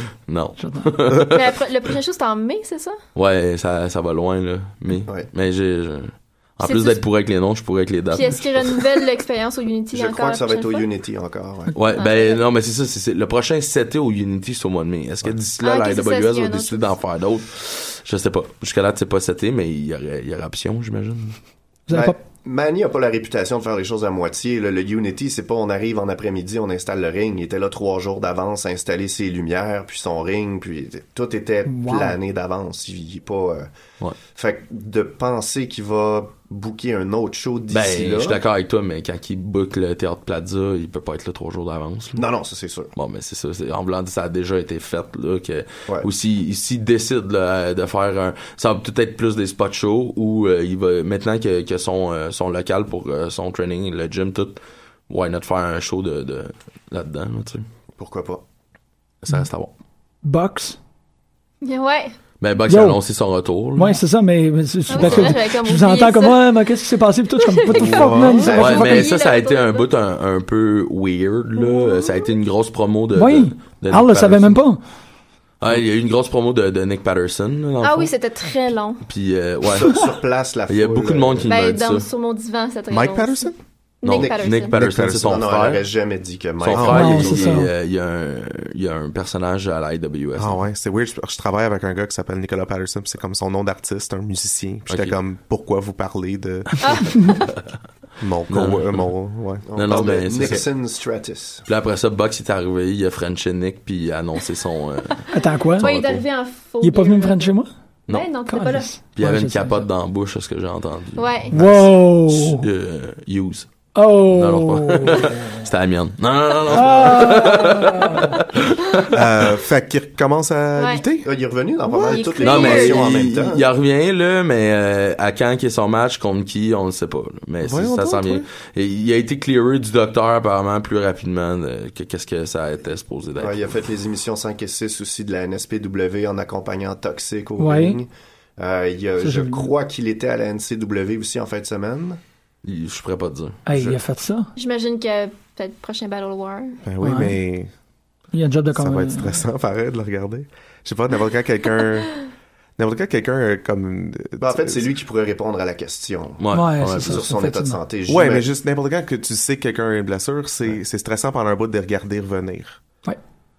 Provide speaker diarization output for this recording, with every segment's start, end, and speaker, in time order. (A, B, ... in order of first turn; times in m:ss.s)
0:00.3-0:01.5 A
0:00.6-0:00.9 B
0:01.2-0:03.0 C
0:03.1-0:08.7 A
0:06.6-0:07.0 C
0:08.1-0:10.9 C
0:09.9-0:11.7 D
0:11.7-0:21.4 A
0:11.9-0:12.4 C
0:15.6-0:17.0 C
0:21.9-0:22.2 B
0:21.9-0:33.7 D
0:31.7-0:32.2 B
0:34.3-0:38.4 D
0:37.7-0:42.3 A
0:42.2-0:42.9 D
0:43.0-0:57.6 A
0:58.0-0:58.4 D
0:59.2-0:59.7 A
1:00.2-1:00.8 B
1:01.6-1:02.1 C
1:02.4-1:04.0 A
1:02.7-1:03.0 B
1:03.8-1:09.1 B
1:04.9-1:06.5 C
1:07.4-1:08.0 C
1:07.7-1:08.5 E
1:08.0-1:09.1 D
1:08.6-1:09.9 C
1:08.6-1:14.6 A
1:11.6-1:12.3 C
1:13.1-1:14.8 B
1:15.6-1:18.1 A
1:17.8-1:19.0 C
1:19.0-1:20.0 A
1:19.7-1:21.6 D
1:20.7-1:22.1 A
1:21.5-1:24.8 C
1:22.9-1:23.5 E
1:24.0-1:25.8 A
1:24.1-1:27.6 D
1:24.7-1:25.5 E
1:26.6-1:30.6 A
1:26.7-1:27.2 E
1:26.9-1:27.7 B
1:30.4-1:37.0 E
1:34.9-1:35.2 A
1:36.8-1:37.2 C
1:38.2-1:40.6 E
1:38.5-1:39.1 A
1:39.6-1:41.6 D
1:39.8-1:40.6 A
1:41.7-1:45.2 A
1:45.3-1:45.9 B
1:45.8-1:46.2 A
1:45.8-1:47.6 C
1:46.8-1:47.7 B
1:48.1-1:48.9 C
1:48.5-1:49.8 B
1:49.1-1:51.7 A
1:51.2-1:51.6 C
1:51.5-1:52.6 B
1:52.3-1:53.7 A
1:53.9-1:55.6 B
1:54.3-1:59.1 A
1:56.7-1:58.4 B
1:59.1-2:01.3 E
2:00.8-2:01.1 C
2:01.2-2:03.6 D
2:01.8-2:02.3 E
2:02.0-2:03.0 C
2:02.4-2:13.7 A
2:07.6-2:08.4 E
2:13.4-2:22.2 D
2:17.6-2:18.0 B
2:19.2-2:19.7 B
2:22.6-2:23.6 A
2:23.6-2:24.5 B
2:24.6-2:26.8 C
2:26.8-2:27.7 E
2:27.0-2:27.4 B
2:28.3-2:29.4 B
2:28.7-2:32.1 E
2:32.8-2:34.9 E
2:34.4-2:36.4 D
2:36.4-2:37.2 A
2:36.5-2:37.8 B
2:37.0-2:38.4 D
2:38.1-2:42.8 E